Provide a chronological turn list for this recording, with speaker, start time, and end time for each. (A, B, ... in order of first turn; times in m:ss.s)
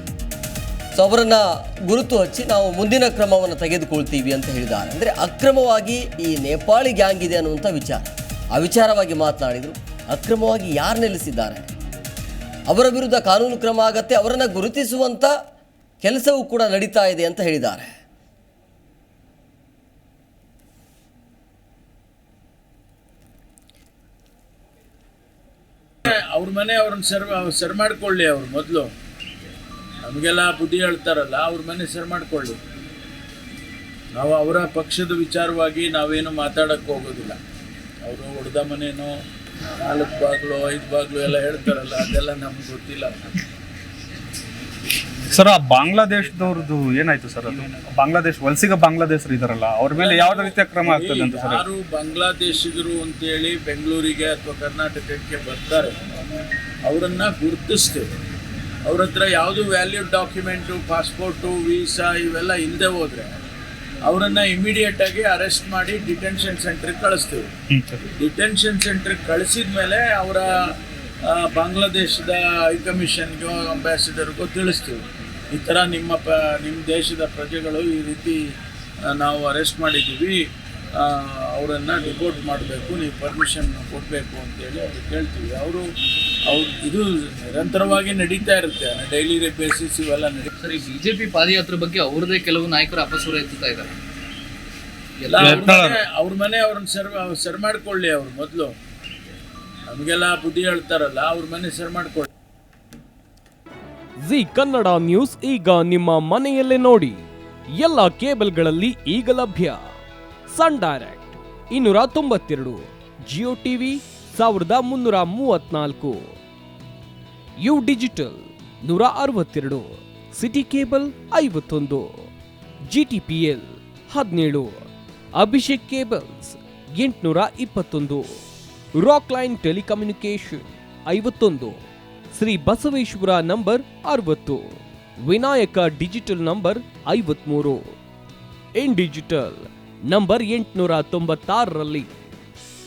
0:01.0-0:11.7 A
0:12.7-0:15.3 A
0:16.0-0:17.9 A
0:26.0-0:28.9 B
0:30.0-0:32.6 B
0:34.1-0:37.4 B
0:38.0-0:39.2 B
0:39.8-0:43.2 B
0:45.3-0:51.6 C
0:50.0-0:55.9 B
0:56.8-0:58.1 B
0:58.8-1:03.3 B
1:04.0-1:07.5 B
1:07.7-1:08.0 C
1:08.2-1:18.5 B
1:19.0-1:20.4 B
1:21.0-1:25.8 B
1:26.5-1:30.5 B
1:30.6-1:34.0 D
1:35.2-1:35.7 D
1:35.3-1:38.7 B
1:35.4-1:36.0 C
1:39.9-1:42.3 B
1:44.2-1:47.2 E
1:47.8-1:49.8 E
1:50.5-1:56.3 E
1:57.6-2:02.3 E
2:02.9-2:04.7 E
2:05.4-2:08.4 E
2:09.0-2:11.8 E
2:12.3-2:17.9 E
2:18.8-2:22.1 E